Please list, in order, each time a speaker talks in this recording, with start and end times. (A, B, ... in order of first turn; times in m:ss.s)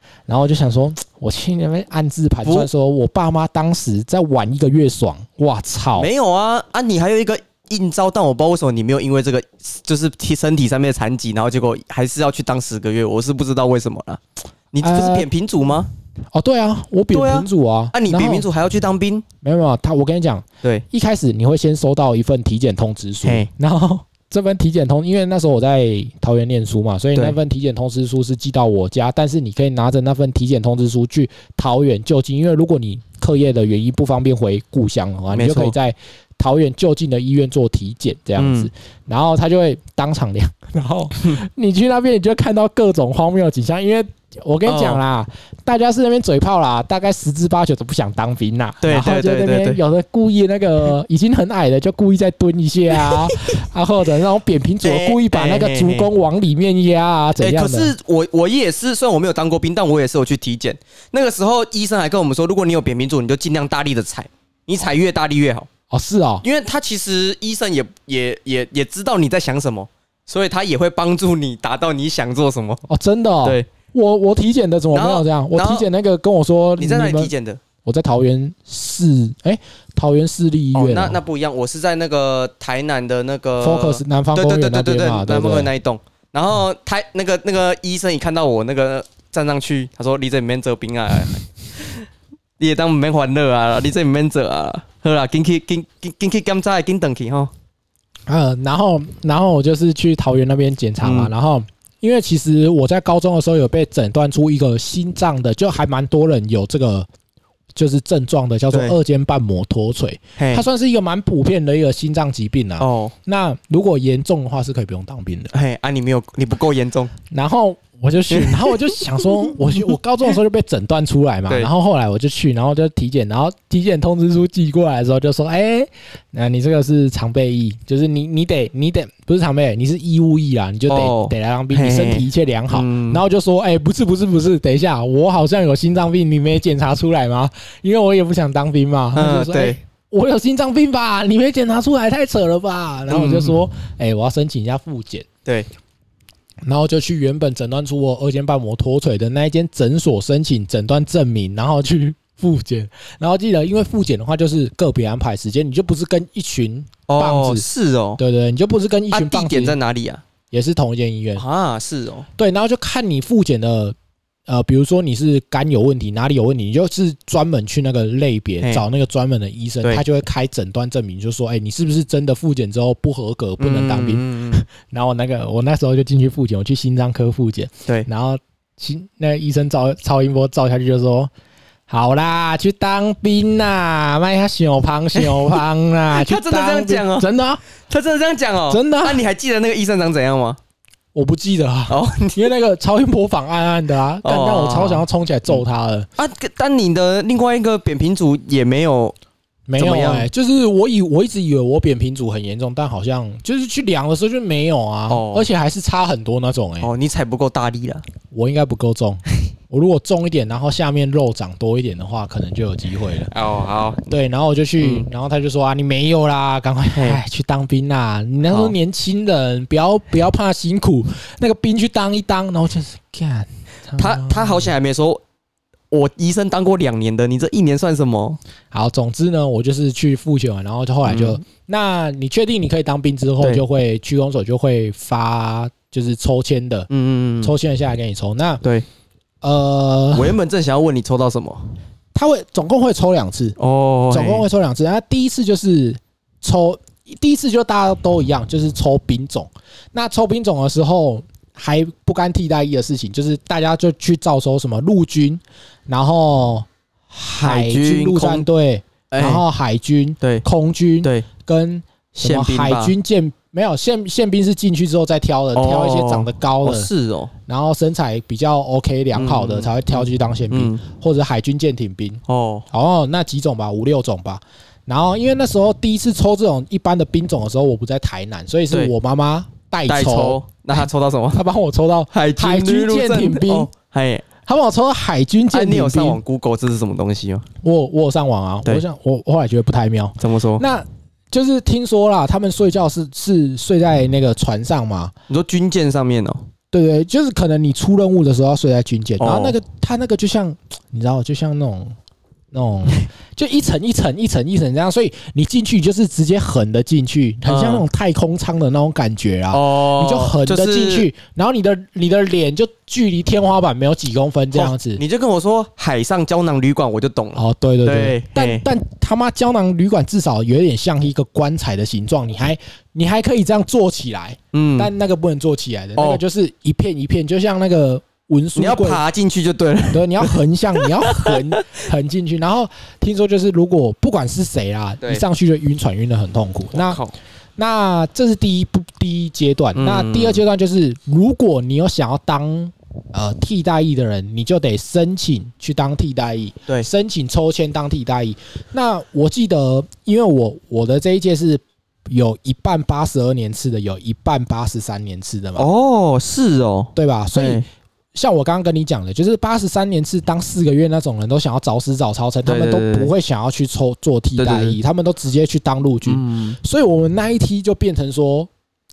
0:00.3-0:06.1 A
0:06.0-0:15.9 B
0:14.8-0:15.3 A
0:16.3-0:18.5 A
0:17.1-0:19.2 B
0:19.4-0:57.9 A
0:23.2-0:23.5 B
0:35.3-0:35.8 B
0:38.4-0:38.7 B
0:44.6-0:45.0 B
0:48.8-0:49.8 B
0:53.1-0:53.4 B
0:54.8-0:56.1 B
0:57.4-1:05.7 B
1:05.9-1:06.4 A
1:06.4-1:12.8 B
1:12.9-1:17.3 A
1:13.4-1:13.7 B
1:14.9-1:15.8 B
1:16.8-1:17.6 B
1:17.8-1:21.2 A
1:20.7-1:32.0 B
1:23.6-1:25.7 A
1:32.6-1:37.5 B
1:38.3-1:47.1 A
1:41.0-1:41.3 B
1:47.8-1:55.5 A
1:48.7-1:49.0 B
1:50.4-1:50.6 B
1:52.8-1:53.1 B
1:55.5-1:57.1 B
1:57.3-2:25.3 A
1:58.3-1:59.0 B
2:10.9-2:13.2 B
2:19.1-2:19.8 B
2:23.1-2:23.6 B
2:26.6-2:37.6 A
2:37.1-2:38.2 B
2:38.2-2:39.8 A
2:39.1-2:40.2 B
2:40.5-2:41.4 A
2:41.4-2:42.3 B
2:42.4-2:43.9 A
2:44.5-3:01.3 A
2:53.6-2:54.6 B
3:01.9-3:07.6 A
3:05.2-3:05.6 B
3:06.1-3:07.3 B
3:07.9-3:10.6 B
3:08.7-3:09.2 A
3:11.1-3:16.1 A
3:11.9-3:12.5 B
3:14.2-3:15.6 B
3:16.2-3:19.1 B
3:19.7-3:26.9 A
3:19.8-3:20.3 B
3:25.1-3:25.5 B
3:26.8-3:28.0 B
3:28.3-3:33.3 A
3:33.3-3:34.1 B
3:34.1-3:44.7 A
3:34.8-3:35.1 B
3:38.4-3:38.7 B
3:44.0-3:45.2 B
3:45.9-3:48.4 B
3:48.7-3:56.9 A
3:51.0-3:51.4 B
3:56.9-3:57.5 B
3:57.4-3:58.6 A
3:59.4-4:00.4 A
4:00.1-4:01.6 B
4:02.1-4:03.6 A
4:03.6-4:04.4 B
4:04.1-4:26.9 A
4:17.4-4:18.4 B
4:19.1-4:19.4 B
4:22.2-4:22.9 B
4:25.5-4:27.3 B
4:27.5-4:43.7 A
4:29.1-4:30.8 B
4:32.3-4:32.6 B
4:39.9-4:41.4 B
4:42.1-4:44.3 B
4:44.4-4:46.2 A
4:45.5-4:47.4 B
4:47.6-4:55.1 A
4:50.2-4:50.6 B
4:55.3-4:56.4 B
4:56.7-5:02.0 A
4:59.2-4:59.6 B
5:02.5-5:15.0 A
5:07.4-5:07.8 B
5:09.5-5:11.1 B
5:14.5-5:18.6 B
5:17.4-5:29.0 A
5:24.5-5:24.9 B
5:28.6-5:31.8 B
5:29.9-5:37.0 A
5:36.7-5:37.1 B
5:37.6-5:55.6 A
5:39.7-5:40.4 B
5:55.6-5:57.6 B
5:57.0-5:57.6 A
5:58.1-6:08.5 A
6:02.4-6:03.1 B
6:04.4-6:04.8 B
6:06.1-6:06.6 B